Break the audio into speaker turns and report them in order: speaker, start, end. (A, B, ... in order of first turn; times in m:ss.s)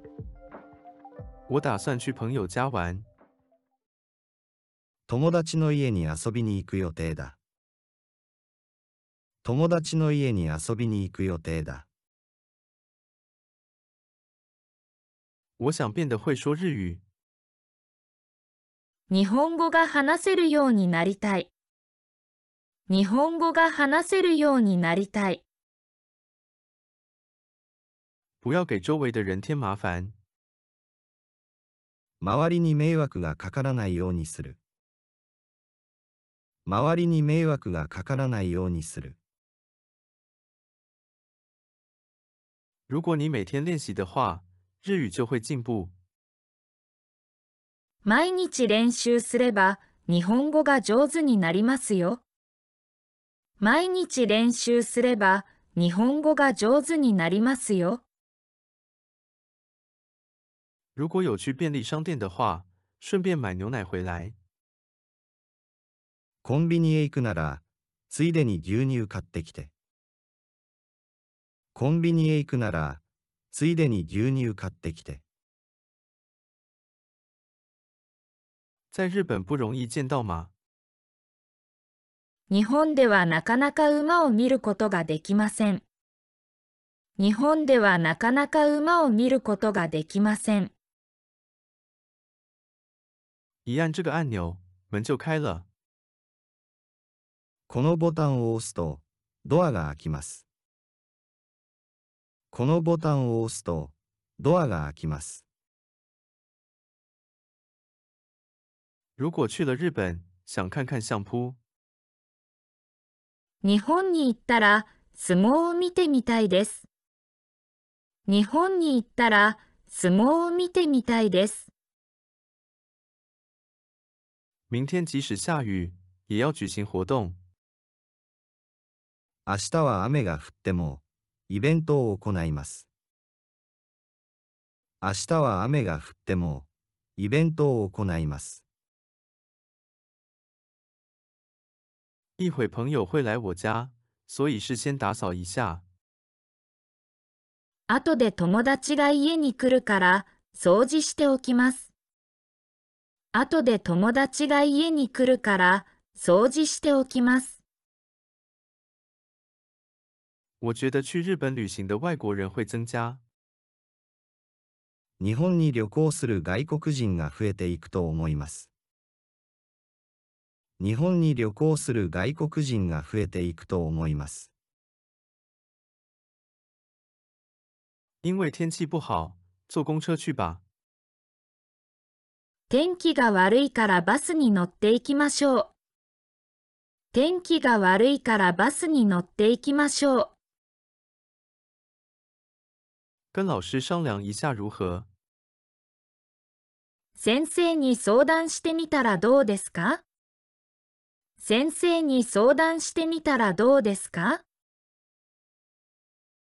0:01.5-0:03.0 A
0:05.1-0:07.4 B
0:09.4-0:11.9 B
0:15.6-0:17.0 A
0:19.1-0:21.5 C
0:22.9-0:25.4 C
0:28.4-0:30.1 A
0:32.2-0:34.6 B
0:36.6-0:39.2 B
0:42.9-0:45.9 A
0:48.0-0:52.2 C
0:53.6-0:58.0 C
1:00.9-1:04.4 A
1:06.4-1:09.7 B
1:11.7-1:15.2 B
1:18.9-1:20.5 A
1:22.5-1:25.8 C
1:27.2-1:30.7 C
1:33.6-1:35.7 A
1:37.7-1:40.4 B
1:42.5-1:45.4 B
1:49.2-1:51.6 A
1:53.6-1:56.8 C
1:58.2-2:01.7 C
2:04.7-2:07.4 A
2:09.4-2:12.9 B
2:15.0-2:18.6 B
2:22.4-2:25.8 A
2:27.9-2:31.9 C
2:33.3-2:37.6 C
2:40.6-2:43.2 A
2:45.2-2:48.7 B
2:50.8-2:54.5 B
2:58.2-3:00.6 A
3:02.7-3:05.7 C
3:07.1-3:10.3 C
3:13.3-3:15.1 A
3:17.2-3:20.0 C
3:21.4-3:24.4 C